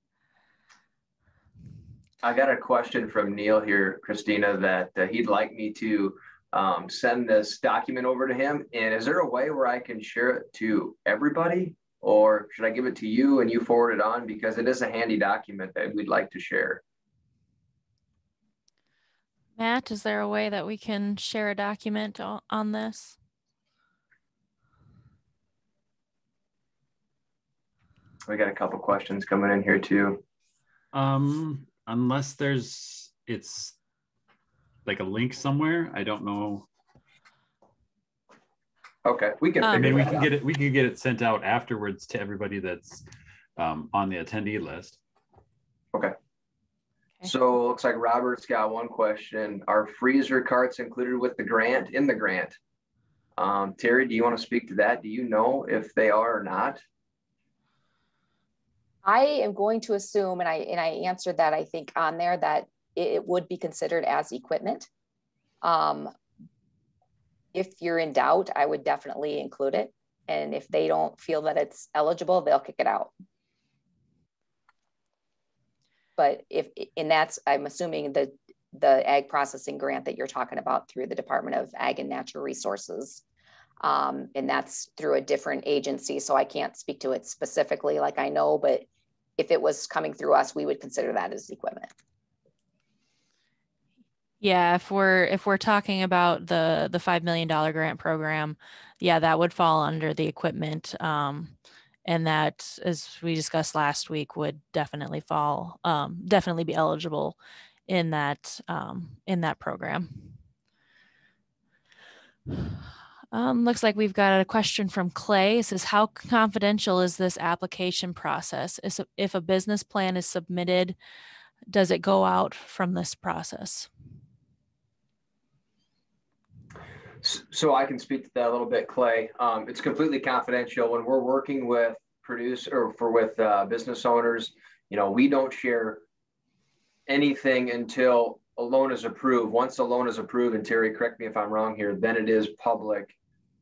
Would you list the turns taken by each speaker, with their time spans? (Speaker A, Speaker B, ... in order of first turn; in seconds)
Speaker A: 2.2-16.8, 28.3-30.2, 39.0-40.3, 47.2-52.5, 53.4-56.8, 127.2-136.0, 137.1-143.2
Speaker B: 19.6-23.2, 39.6-40.0, 94.4-107.4, 107.9-110.4, 113.3-121.0, 121.7-123.9
Speaker C: 30.9-33.8, 34.8-36.7, 39.7-43.0, 43.6-45.0
Speaker D: 59.0-64.9, 65.6-66.1, 67.5-73.1, 76.2-83.2, 83.8-88.9, 89.4-91.9